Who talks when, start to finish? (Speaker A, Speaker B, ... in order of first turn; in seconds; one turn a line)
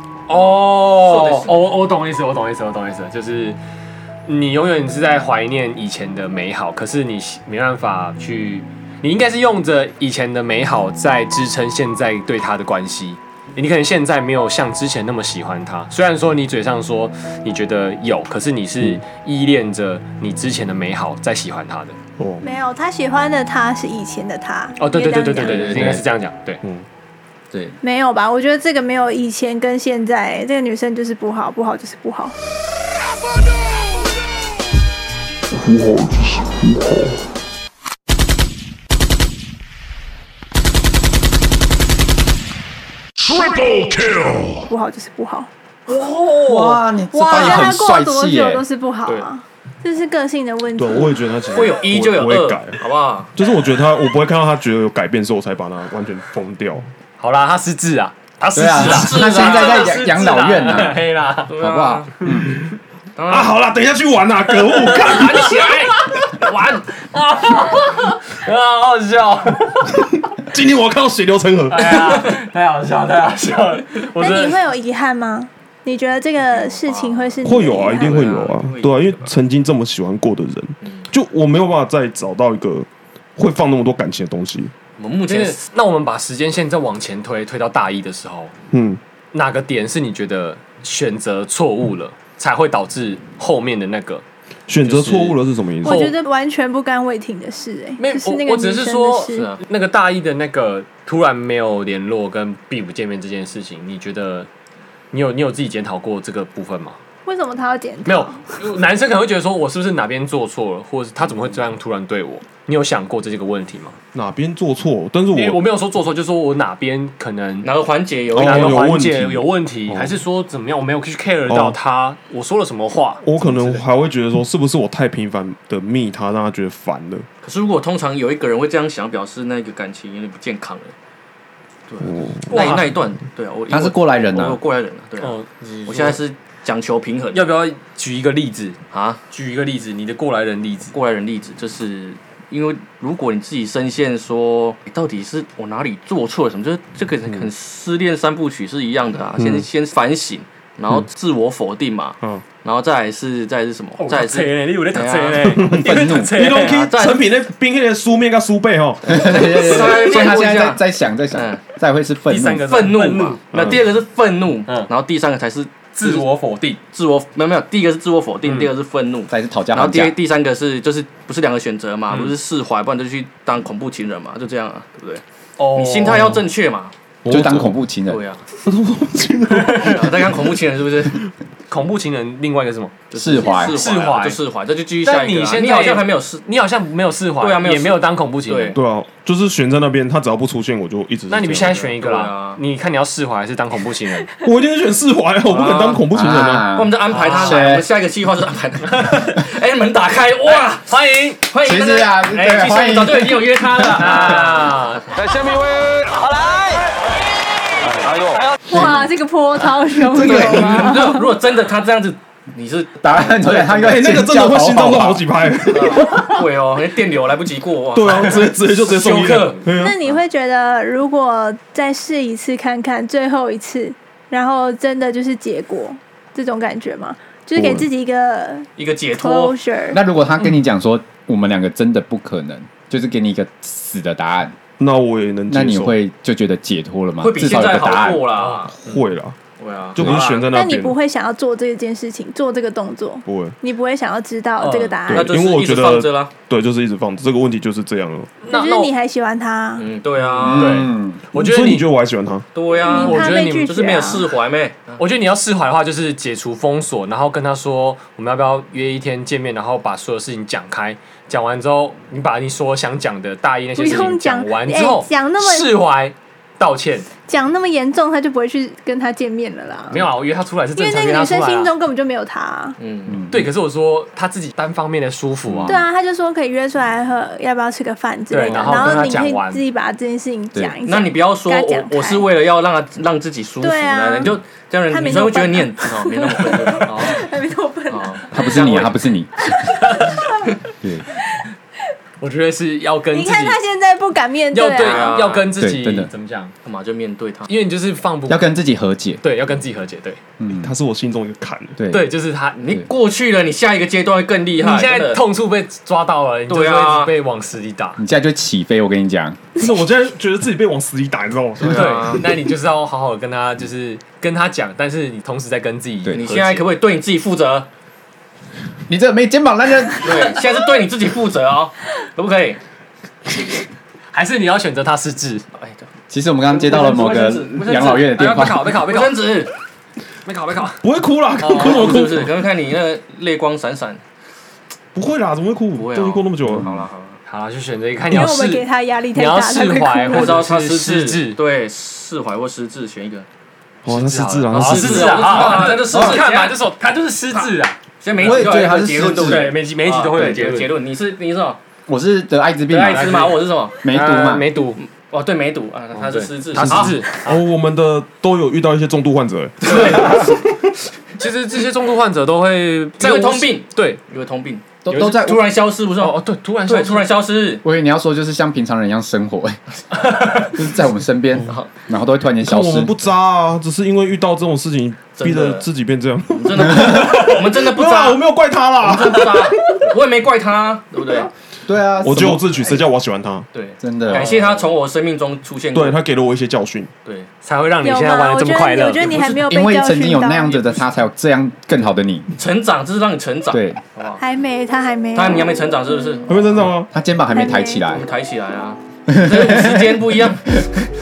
Speaker A: 0.3-3.6
Speaker B: 0.9-1.5
Speaker A: 4.2-22.0
Speaker C: 22.2-22.4
Speaker D: 22.4-25.9
Speaker A: 24.8-26.6
Speaker E: 25.4-26.0
Speaker C: 26.6-26.9
Speaker E: 27.5-27.8
Speaker D: 27.8-32.3
Speaker C: 35.6-37.1
Speaker C: 43.3-44.6
Speaker D: 44.7-45.5
Speaker B: 45.9-47.6
Speaker E: 46.4-48.6
Speaker D: 47.1-51.1
Speaker C: 50.7-52.8
Speaker B: 51.5-53.3
Speaker C: 53.3-56.9
Speaker A: 57.2-61.5
Speaker E: 58.5-61.0
Speaker B: 58.7-60.0
Speaker B: 61.5-62.3
Speaker E: 61.5-62.6
Speaker B: 63.1-63.5
Speaker C: 63.3-65.5
Speaker B: 64.8-66.9
Speaker A: 64.9-70.2
Speaker C: 70.5-72.0
Speaker A: 71.7-74.6
Speaker D: 74.2-78.3
Speaker B: 76.4-79.3
Speaker C: 77.4-84.7
Speaker B: 80.8-81.1
Speaker B: 85.0-85.6
Speaker A: 85.2-88.5
Speaker C: 88.7-89.0
Speaker A: 89.3-94.2
Speaker C: 94.7-96.1
Speaker A: 94.8-96.1
Speaker D: 95.8-99.5
Speaker A: 98.0-104.5
Speaker B: 99.3-99.6
Speaker A: 105.1-107.0
Speaker D: 107.2-108.4
Speaker A: 108.0-114.0
Speaker C: 114.1-115.6
Speaker A: 115.3-117.7
Speaker B: 117.6-118.9
Speaker A: 118.3-123.8
Speaker C: 118.3-120.2
Speaker C: 121.5-121.8
Speaker C: 123.2-127.3
Speaker B: 127.4-130.9
Speaker B: 131.9-137.5
Speaker C: 132.0-132.8
Speaker A: 132.5-132.9
Speaker E: 133.7-134.6
Speaker A: 135.2-136.2
Speaker A: 137.3-138.8
Speaker B: 138.9-139.2
Speaker A: 139.3-140.9
Speaker B: 140.9-157.3
Speaker C: 149.4-149.7
Speaker A: 154.0-156.8
Speaker C: 155.4-159.6
Speaker E: 155.7-156.3
Speaker B: 159.0-160.8
Speaker E: 159.1-162.8
Speaker B: 161.3-161.6
Speaker A: 162.3-163.6
Speaker B: 162.6-166.2
Speaker A: 165.9-166.8
Speaker B: 166.9-176.9
Speaker A: 168.4-168.7
Speaker E: 169.3-170.2
Speaker A: 172.1-172.3
Speaker A: 175.6-176.4
Speaker C: 177.2-177.8
Speaker E: 177.3-178.2
Speaker B: 178.1-178.4
Speaker C: 178.6-180.3
Speaker B: 179.7-181.3
Speaker A: 181.7-184.4
Speaker B: 183.1-186.4
Speaker E: 183.1-183.8
Speaker A: 185.0-188.8
Speaker B: 187.4-188.8
Speaker C: 188.7-191.8
Speaker A: 191.3-194.3
Speaker B: 191.5-192.6
Speaker C: 194.4-196.7
Speaker B: 195.5-196.1
Speaker E: 196.1-197.8
Speaker B: 196.7-204.8
Speaker A: 197.1-197.7
Speaker A: 200.4-201.4
Speaker E: 201.6-203.7
Speaker A: 203.9-205.6
Speaker D: 208.7-211.3
Speaker B: 210.1-213.7
Speaker E: 213.0-215.2
Speaker C: 213.5-216.2
Speaker B: 215.7-219.7
Speaker C: 217.9-220.0
Speaker D: 219.7-230.0
Speaker C: 227.6-227.8
Speaker B: 228.8-229.6
Speaker E: 229.9-234.5
Speaker C: 234.8-236.0
Speaker E: 235.5-238.3
Speaker B: 237.2-239.0
Speaker A: 238.4-238.6
Speaker C: 238.7-239.4
Speaker B: 239.6-240.5
Speaker C: 239.9-241.0
Speaker D: 240.5-245.3
Speaker C: 243.2-243.6
Speaker A: 244.6-245.1
Speaker C: 245.1-248.3
Speaker B: 245.1-246.3
Speaker A: 248.4-248.9
Speaker D: 248.5-249.9
Speaker B: 249.8-250.9
Speaker E: 250.4-251.2
Speaker A: 250.4-251.9
Speaker C: 251.3-252.5
Speaker B: 252.5-255.0
Speaker A: 252.8-253.7
Speaker D: 252.8-254.2
Speaker A: 255.0-267.1
Speaker D: 263.8-265.7
Speaker D: 267.2-270.0
Speaker A: 269.9-271.7
Speaker D: 270.8-272.8
Speaker B: 272.8-273.2
Speaker E: 273.1-273.5
Speaker A: 273.3-275.9
Speaker D: 275.6-282.3
Speaker A: 278.3-279.6
Speaker B: 278.4-279.1
Speaker B: 280.8-287.2
Speaker D: 283.6-284.4
Speaker D: 284.9-288.9
Speaker B: 287.9-288.9
Speaker E: 288.3-289.6
Speaker D: 289.4-290.6
Speaker A: 289.9-290.2
Speaker E: 290.8-291.1
Speaker A: 292.2-293.6
Speaker D: 293.1-295.2
Speaker A: 294.5-296.5
Speaker B: 294.7-295.5
Speaker E: 295.6-296.1
Speaker B: 296.6-297.5
Speaker A: 297.5-298.5
Speaker E: 298.3-299.2
Speaker A: 299.2-300.2
Speaker E: 300.4-300.7
Speaker C: 300.5-301.8
Speaker E: 301.8-302.1
Speaker A: 301.9-302.6
Speaker B: 302.6-305.2
Speaker A: 304.6-308.0
Speaker B: 306.5-307.1
Speaker E: 308.0-309.4
Speaker C: 309.6-312.2
Speaker B: 311.6-312.3
Speaker A: 311.6-316.7
Speaker B: 316.1-317.7
Speaker E: 318.9-320.4
Speaker B: 320.0-322.6
Speaker A: 324.1-325.4
Speaker B: 325.6-325.9
Speaker E: 326.1-328.7
Speaker B: 326.5-328.1
Speaker A: 326.7-329.3
Speaker B: 328.7-329.5
Speaker A: 330.2-330.8
Speaker C: 330.8-332.3
Speaker A: 331.4-332.0
Speaker B: 331.4-334.0
Speaker C: 334.9-336.7
Speaker B: 335.7-337.2
Speaker E: 336.5-336.9
Speaker A: 337.3-341.4
Speaker D: 338.1-340.4
Speaker B: 340.1-343.3
Speaker C: 343.8-345.7
Speaker A: 343.9-350.8
Speaker B: 344.5-346.6
Speaker E: 345.9-346.2
Speaker B: 347.3-351.6
Speaker E: 348.2-349.5
Speaker E: 351.9-353.2
Speaker B: 352.7-353.8
Speaker A: 352.9-354.8
Speaker E: 353.8-354.5
Speaker B: 354.8-357.1
Speaker A: 355.9-357.4
Speaker E: 356.6-356.9
Speaker C: 356.7-360.3
Speaker A: 359.6-360.3
Speaker B: 359.7-360.2
Speaker A: 361.2-364.0
Speaker B: 363.0-367.6
Speaker E: 364.8-365.4
Speaker A: 364.9-365.2
Speaker A: 366.0-367.1
Speaker E: 367.6-369.6
Speaker E: 370.4-372.9
Speaker C: 372.4-379.8
Speaker B: 375.1-375.6
Speaker B: 376.3-378.2
Speaker B: 378.8-381.3
Speaker E: 381.6-382.8
Speaker C: 382.0-383.5
Speaker B: 383.5-386.0
Speaker E: 383.8-384.3
Speaker A: 384.1-384.7
Speaker C: 385.7-386.9
Speaker A: 387.4-389.3
Speaker D: 387.8-390.6
Speaker B: 389.1-389.3
Speaker E: 389.4-392.3
Speaker B: 392.4-394.2
Speaker E: 393.5-393.8
Speaker D: 394.2-395.6
Speaker B: 395.1-396.5
Speaker C: 396.3-396.9
Speaker E: 396.9-398.1
Speaker D: 397.3-397.9
Speaker B: 397.9-400.6
Speaker E: 399.1-400.0